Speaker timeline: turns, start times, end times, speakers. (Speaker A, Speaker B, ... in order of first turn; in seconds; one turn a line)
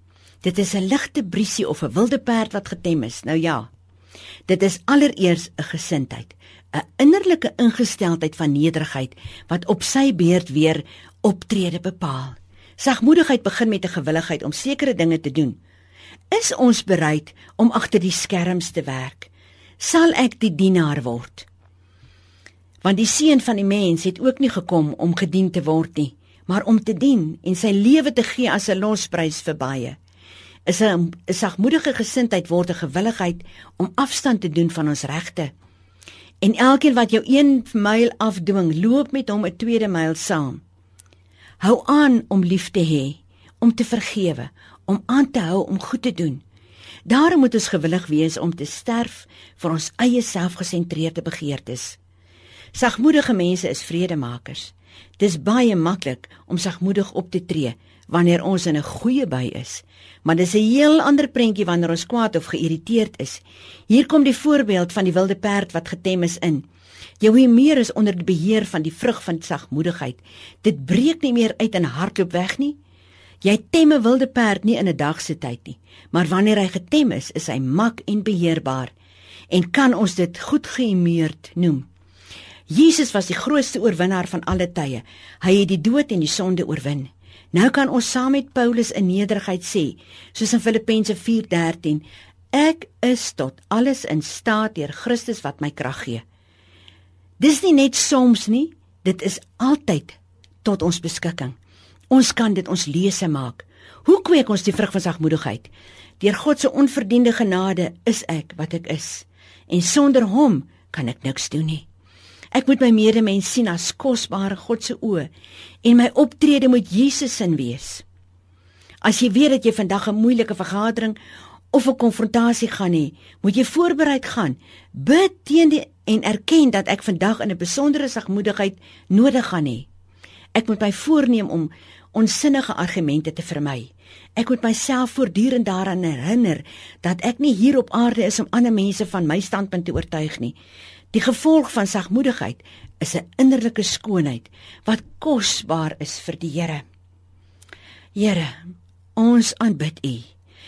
Speaker A: 0.4-3.7
Speaker A: 4.5-15.6
Speaker A: 16.3-21.4
Speaker A: 22.8-30.0
Speaker A: 30.7-35.5
Speaker A: 36.4-40.6
Speaker A: 41.6-46.4
Speaker A: 47.1-52.0
Speaker A: 52.8-66.6
Speaker A: 67.2-72.8
Speaker A: 73.4-78.9
Speaker A: 79.5-81.9
Speaker A: 82.7-96.2
Speaker A: 97.4-101.6
Speaker A: 102.1-111.8
Speaker A: 112.5-115.3
Speaker A: 115.8-118.0
Speaker A: 119.0-121.2
Speaker A: 121.7-129.9
Speaker A: 130.5-140.5
Speaker A: 141.1-146.8
Speaker A: 148.2-148.6
Speaker A: 149.2-150.3